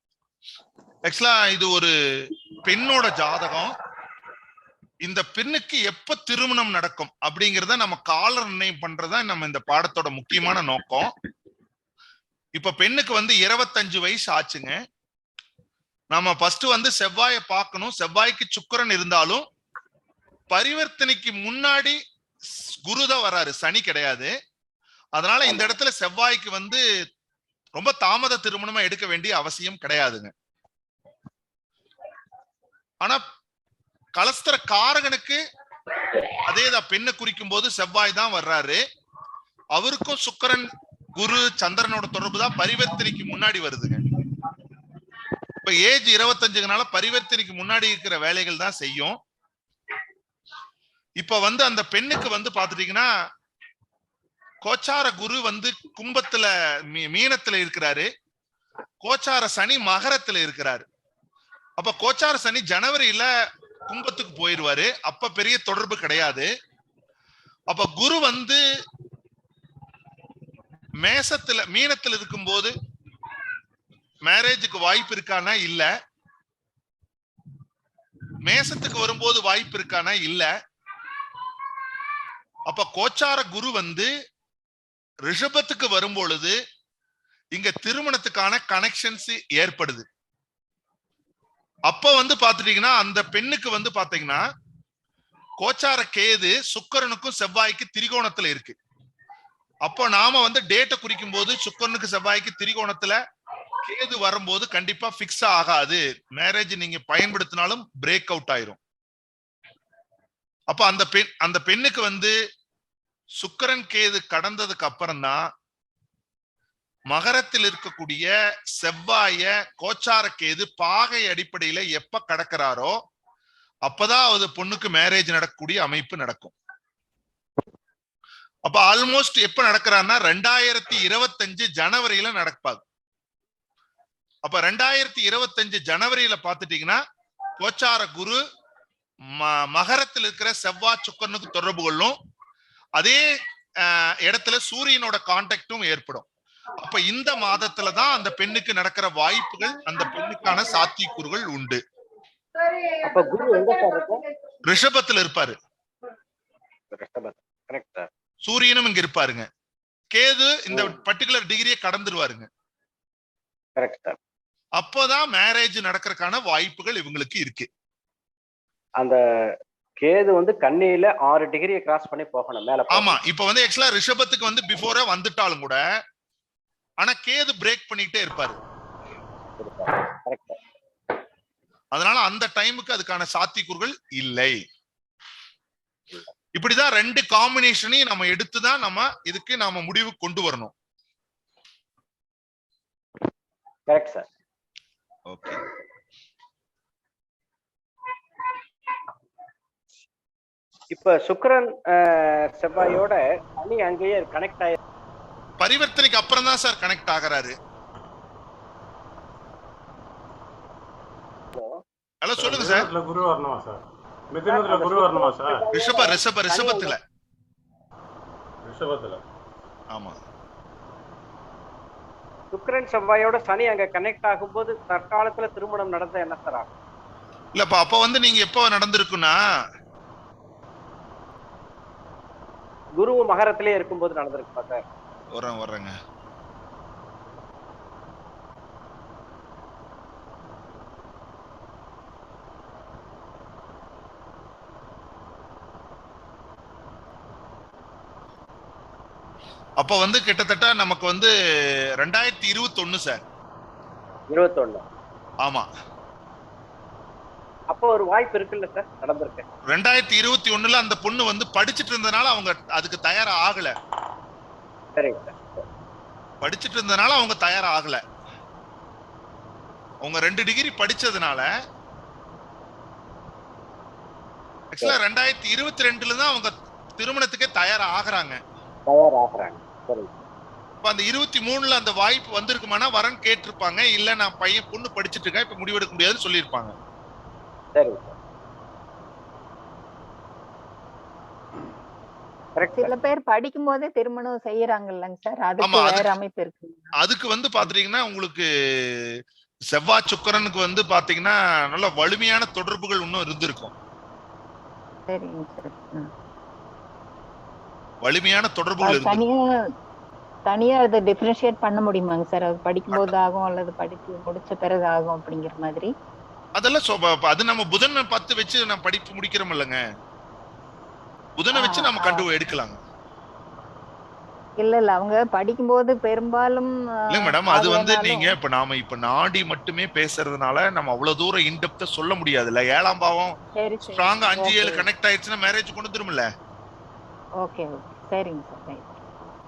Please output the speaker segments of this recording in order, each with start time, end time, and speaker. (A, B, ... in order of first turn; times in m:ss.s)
0:01.1-0:01.9 A
0:02.7-0:03.7 A
0:05.0-0:11.1 A
0:12.6-0:14.8 A
0:16.1-0:19.4 A
0:20.5-0:22.0 A
0:22.7-0:24.3 A
0:25.2-0:26.8 A
0:27.8-0:30.3 A
0:34.2-0:35.4 A
0:36.5-0:38.8 A
0:39.7-0:44.0 A
0:45.6-0:49.2 A
0:51.2-0:53.1 A
0:54.6-0:58.1 A
0:59.0-1:00.8 A
1:01.8-1:03.3 A
1:03.9-1:06.5 A
1:07.7-1:08.6 A
1:11.0-1:12.7 A
1:14.3-1:15.9 A
1:18.4-1:20.5 A
1:22.7-1:24.1 A
1:25.3-1:26.6 A
1:27.5-1:30.0 A
1:31.9-1:34.4 A
1:35.6-1:38.8 A
1:39.9-1:43.2 A
1:43.8-1:48.8 A
1:50.7-1:52.3 A
1:53.4-1:55.4 A
1:57.1-2:02.9 A
2:03.9-2:06.5 A
2:08.7-2:12.8 A
2:14.4-2:17.0 A
2:17.6-2:18.4 A
2:19.3-2:22.2 A
2:23.0-2:23.2 A
2:23.8-2:26.2 A
2:26.8-2:31.8 A
2:33.0-2:34.2 B
2:34.7-2:35.6 A
2:36.9-2:38.1 B
2:38.4-2:39.5 A
2:40.1-2:42.5 A
2:43.8-2:44.2 B
2:44.8-2:47.7 A
2:50.0-2:53.2 B
2:52.9-2:55.8 A
2:57.0-2:58.6 A
2:59.6-3:00.6 B
3:01.9-3:04.6 A
3:06.6-3:10.7 A
3:13.9-3:14.3 B
3:15.3-3:15.6 A
3:20.9-3:24.8 B
3:25.6-3:27.5 A
3:32.2-3:32.9 A
3:32.4-3:35.6 C
3:34.5-3:36.9 B
3:35.7-3:37.0 A
3:38.6-3:39.2 C
3:39.9-3:40.2 A
3:42.5-3:46.7 B
3:47.6-3:49.4 A
3:53.0-3:54.8 B
3:55.3-3:55.9 A
4:09.8-4:11.3 A
4:12.0-4:13.2 A
4:14.3-4:14.8 B
4:17.7-4:19.4 B
4:19.7-4:23.7 A
4:25.0-4:25.6 B
4:26.4-4:28.0 A
4:30.0-4:31.5 A
4:34.7-4:38.4 A
4:38.9-4:40.1 B
4:40.8-4:46.7 A
4:47.8-4:48.1 B
4:52.6-4:52.9 B
4:52.8-4:56.9 D
4:55.6-4:56.1 A
4:57.0-4:58.9 A
4:59.7-5:03.7 A
5:05.1-5:06.1 D
5:08.0-5:09.2 A
5:08.8-5:09.4 D
5:10.5-5:15.9 D
5:16.6-5:19.8 A
5:21.4-5:22.8 A
5:21.5-5:22.2 D
5:24.6-5:28.3 D
5:27.1-5:33.3 A
5:33.6-5:34.8 D
5:33.9-5:36.3 A
5:37.4-5:39.0 D